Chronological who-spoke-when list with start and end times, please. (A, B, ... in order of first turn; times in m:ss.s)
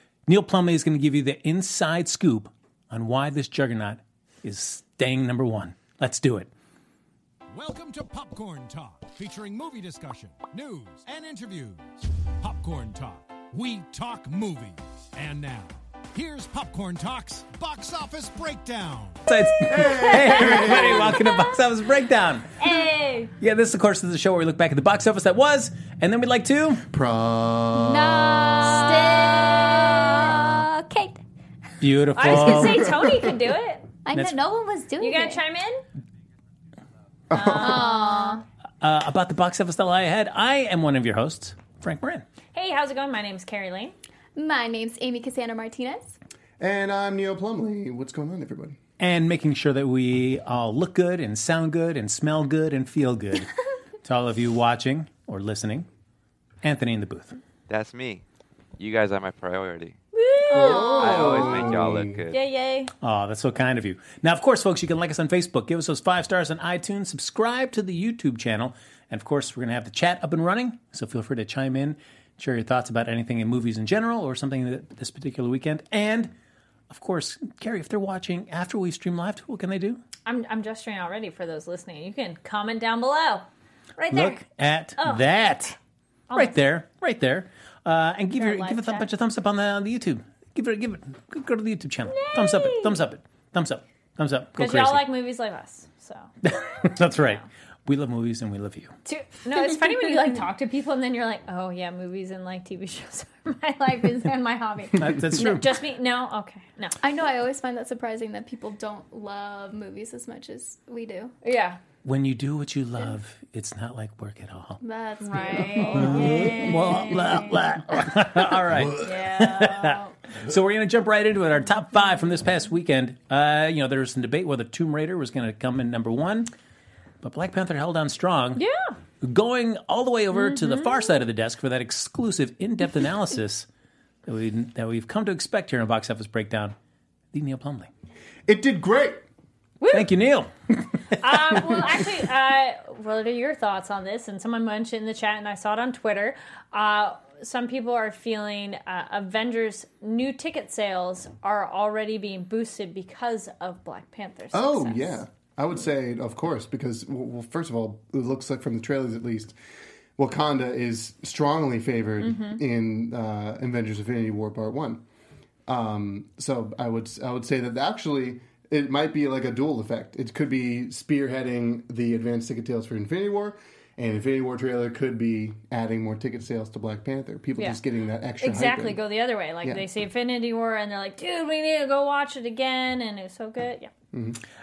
0:00.3-0:06.5 A
0:07.5-0:19.2 B
0:19.2-0:22.6 A
0:19.5-0:21.6 C
0:19.7-0:21.0 D
0:22.6-0:23.3 C
0:23.4-0:26.9 A
0:26.9-0:28.8 D
0:27.7-0:31.2 E
0:28.6-0:30.3 C
0:31.8-0:32.8 A
0:32.1-0:33.9 C
0:32.3-0:33.3 E
0:34.0-0:35.4 E
0:35.0-0:35.8 C
0:37.3-0:37.9 D
0:37.3-0:38.4 C
0:37.5-0:38.4 E
0:38.8-0:42.2 A
0:42.5-0:43.9 C
0:44.4-0:46.2 E
0:46.6-0:48.8 D
0:49.0-0:55.9 A
0:56.6-0:57.4 A
0:57.7-0:58.2 F
0:58.8-1:00.0 F
1:00.1-1:01.5 C
1:00.5-1:02.2 D
1:00.6-1:02.4 F
1:00.6-1:01.8 E
1:02.3-1:02.9 C
1:03.0-1:16.3 A
1:16.9-1:20.0 A
1:20.2-1:23.5 C
1:24.0-1:24.4 C
1:24.1-1:25.8 A
1:25.0-1:25.3 C
1:26.3-1:26.6 C
1:26.3-1:35.1 A
1:28.4-1:29.1 C
1:32.1-1:33.0 C
1:34.6-1:37.4 C
1:36.4-1:39.0 A
1:39.0-1:47.0 C
1:45.0-1:45.7 A
1:47.0-1:51.4 E
1:51.4-1:51.8 C
1:52.0-1:54.8 A
1:54.8-1:57.0 E
1:55.2-1:57.6 C
1:55.9-2:06.5 A
1:59.0-2:00.2 C
2:07.2-2:08.6 A
2:08.6-2:09.0 C
2:09.2-2:13.7 A
2:10.3-2:11.1 C
2:14.2-2:16.8 A
2:17.3-2:17.9 A
2:18.5-2:19.2 D
2:19.8-2:20.1 C
2:19.9-2:21.7 A
2:21.2-2:35.2 C
2:34.5-2:39.6 D
2:40.2-2:45.0 D
2:42.2-2:42.6 C
2:45.7-2:59.0 D
2:58.4-3:03.9 C
3:04.1-3:04.4 D